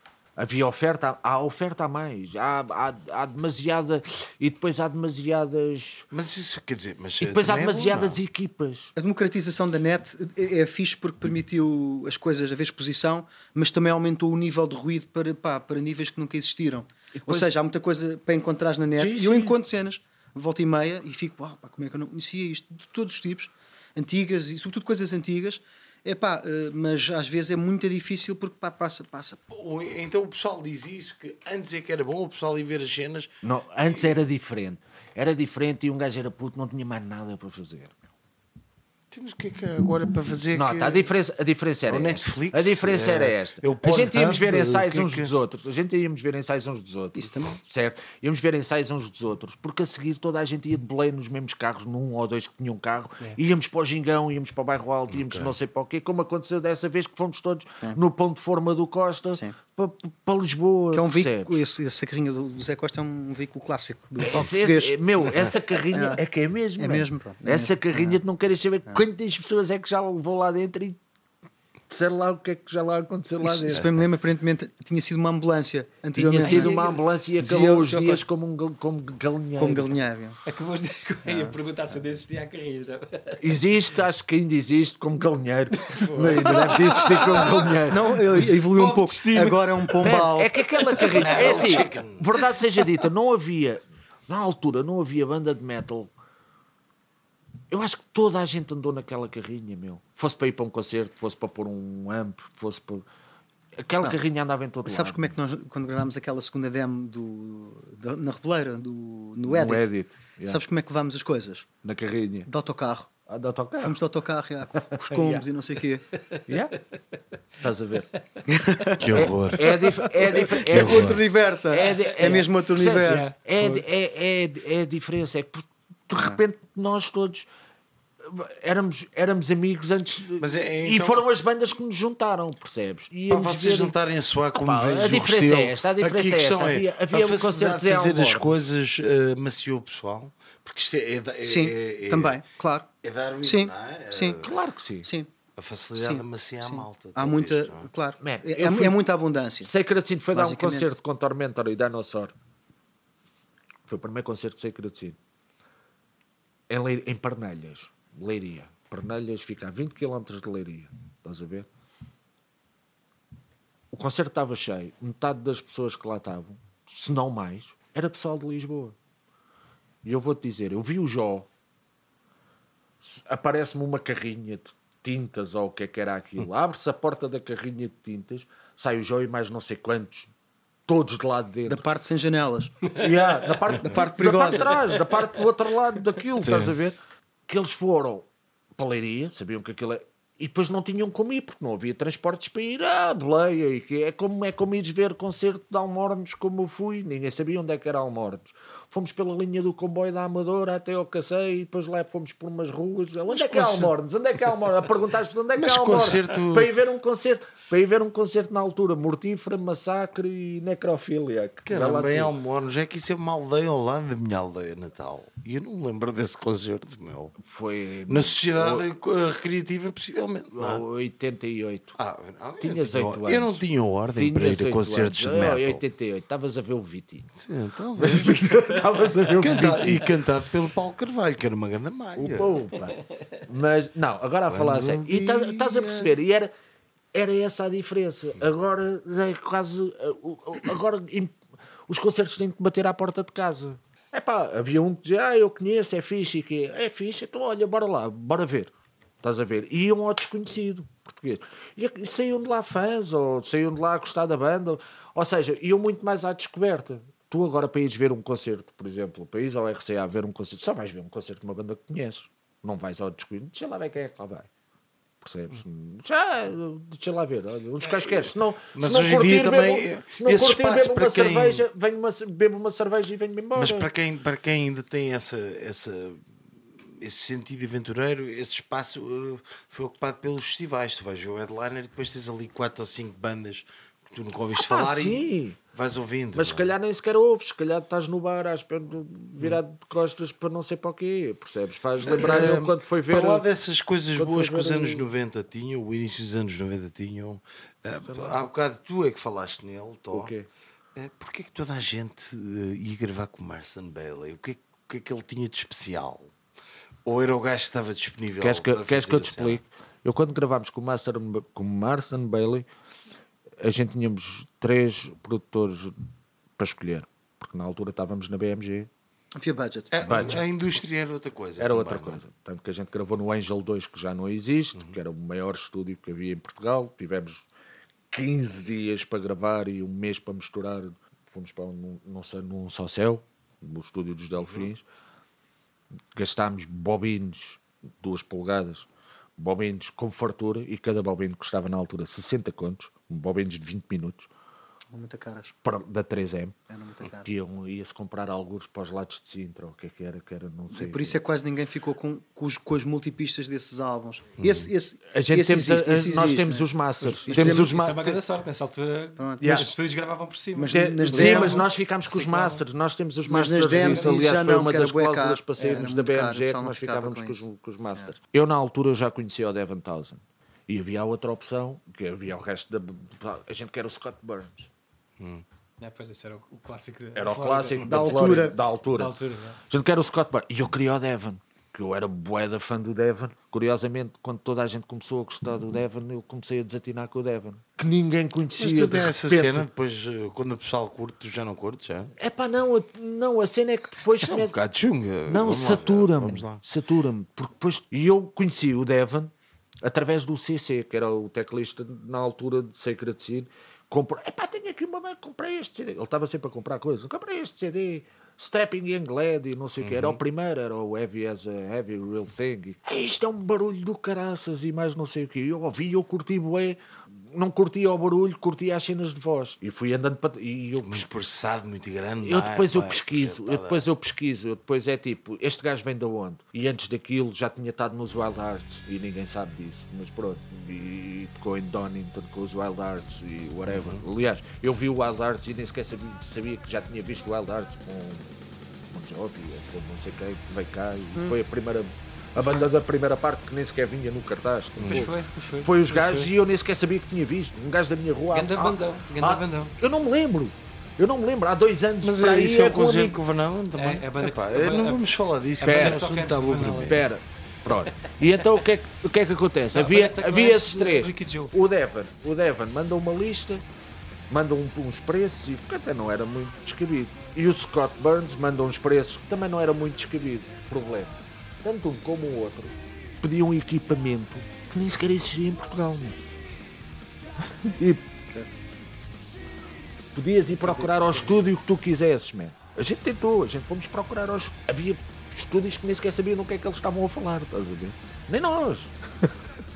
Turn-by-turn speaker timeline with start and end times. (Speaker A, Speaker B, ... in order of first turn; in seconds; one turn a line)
Speaker A: 0.4-6.1
Speaker B: 6.1-8.2
Speaker A: 7.2-8.9
Speaker C: 8.9-29.4
Speaker A: 18.9-19.6
Speaker B: 29.5-34.1
Speaker A: 33.4-37.9
Speaker B: 39.1-41.1
Speaker A: 40.5-61.6
Speaker B: 41.9-45.3
Speaker C: 47.1-47.6
Speaker B: 55.1-55.5
Speaker C: 60.9-65.0
Speaker A: 64.3-71.0
Speaker C: 65.9-66.2
Speaker C: 66.8-68.2
Speaker A: 71.9-73.9
Speaker C: 73.4-78.2
Speaker A: 76.1-79.9
Speaker D: 76.4-76.8
Speaker C: 79.6-80.4
Speaker D: 80.5-83.4
Speaker A: 83.4-88.1
Speaker D: 85.9-87.4
Speaker B: 86.8-87.8
Speaker C: 87.9-90.6
Speaker D: 88.6-90.1
Speaker A: 90.0-96.1
Speaker B: 91.1-92.4
Speaker A: 97.7-103.0
Speaker A: 103.8-105.3
Speaker C: 104.8-109.9
Speaker A: 109.5-110.6
Speaker C: 110.5-111.7
Speaker A: 111.8-112.5
Speaker C: 112.5-113.1
Speaker A: 113.3-114.0
Speaker C: 113.8-116.0
Speaker A: 115.1-115.4
Speaker A: 116.5-116.8
Speaker A: 117.6-118.2
Speaker C: 118.5-119.0
Speaker B: 119.0-119.7
Speaker A: 119.0-127.5
Speaker C: 119.7-123.8
Speaker B: 120.7-121.2
Speaker D: 123.0-123.7
Speaker C: 126.1-126.4
Speaker A: 128.2-133.9
Speaker B: 130.4-131.2
Speaker B: 133.3-142.4
Speaker A: 134.5-138.5
Speaker C: 141.4-142.9
Speaker B: 143.0-144.5
Speaker C: 143.4-144.4
Speaker A: 144.4-145.1
Speaker C: 145.0-145.3
Speaker B: 145.6-147.9
Speaker C: 145.9-149.7
Speaker A: 148.2-149.0
Speaker A: 149.6-152.3
Speaker C: 150.3-150.9
Speaker A: 153.9-155.2
Speaker A: 156.7-161.7
Speaker A: 163.9-168.9
Speaker A: 170.0-171.5
Speaker A: 173.0-180.3
Speaker A: 180.9-181.8
Speaker C: 181.7-182.7
Speaker A: 182.9-187.0
Speaker C: 183.8-184.8
Speaker B: 186.4-186.8
Speaker A: 187.5-188.2
Speaker A: 188.8-212.3
Speaker B: 203.3-203.9
Speaker B: 205.6-206.7
Speaker B: 211.7-217.3
Speaker A: 217.4-218.8
Speaker B: 218.1-220.8
Speaker A: 220.5-221.9
Speaker B: 221.9-225.8
Speaker A: 222.6-223.6
Speaker A: 224.1-227.4
Speaker B: 227.4-228.6
Speaker A: 228.0-230.1
Speaker B: 229.4-232.7
Speaker A: 232.2-236.5
Speaker B: 234.5-236.1
Speaker A: 237.1-241.3
Speaker A: 241.9-248.7
Speaker A: 249.2-264.5
Speaker A: 265.2-273.9
Speaker B: 267.8-271.6
Speaker B: 273.6-286.7
Speaker A: 284.6-285.6
Speaker A: 286.3-293.4
Speaker B: 292.0-300.3
Speaker A: 294.2-295.0
Speaker A: 298.0-298.4
Speaker A: 300.1-300.5
Speaker B: 300.9-306.3
Speaker B: 307.1-309.6
Speaker A: 308.4-312.6
Speaker A: 313.6-315.9
Speaker A: 316.6-318.9
Speaker C: 319.4-320.4
Speaker B: 319.9-322.2
Speaker A: 320.0-320.4
Speaker A: 321.6-327.4
Speaker A: 328.1-334.8
Speaker B: 334.4-334.7
Speaker A: 336.1-338.9
Speaker A: 339.4-344.3
Speaker C: 344.9-345.5
Speaker A: 345.6-351.1
Speaker C: 346.7-347.3
Speaker C: 350.7-356.7
Speaker B: 354.4-354.7
Speaker A: 355.1-358.2
Speaker D: 357.0-362.6
Speaker C: 357.2-357.7
Speaker C: 359.2-359.7
Speaker A: 359.4-359.7
Speaker C: 360.5-361.6
Speaker A: 360.7-374.7
Speaker D: 363.2-364.3
Speaker C: 363.3-367.4
Speaker D: 365.6-365.8
Speaker B: 375.2-375.4
Speaker D: 375.8-378.4
Speaker A: 377.1-379.2
Speaker C: 377.8-378.6
Speaker D: 378.9-379.6
Speaker A: 379.7-389.6
Speaker B: 388.6-392.1
Speaker A: 392.2-394.5
Speaker B: 394.2-396.6
Speaker A: 395.2-399.3
Speaker A: 399.8-416.8
Speaker B: 409.8-410.2
Speaker A: 417.3-421.1
Speaker B: 420.8-423.8
Speaker A: 422.2-438.3
Speaker B: 433.7-434.0
Speaker A: 438.9-453.2
Speaker D: 442.4-442.7
Speaker B: 444.8-445.1
Speaker D: 444.9-446.3
Speaker D: 448.3-449.7
Speaker B: 452.0-457.0
Speaker D: 453.7-455.0
Speaker D: 455.6-457.0
Speaker A: 455.6-463.6
Speaker D: 459.7-461.5
Speaker A: 464.3-476.2
Speaker A: 477.6-478.0
Speaker A: 480.1-489.3
Speaker B: 480.6-481.4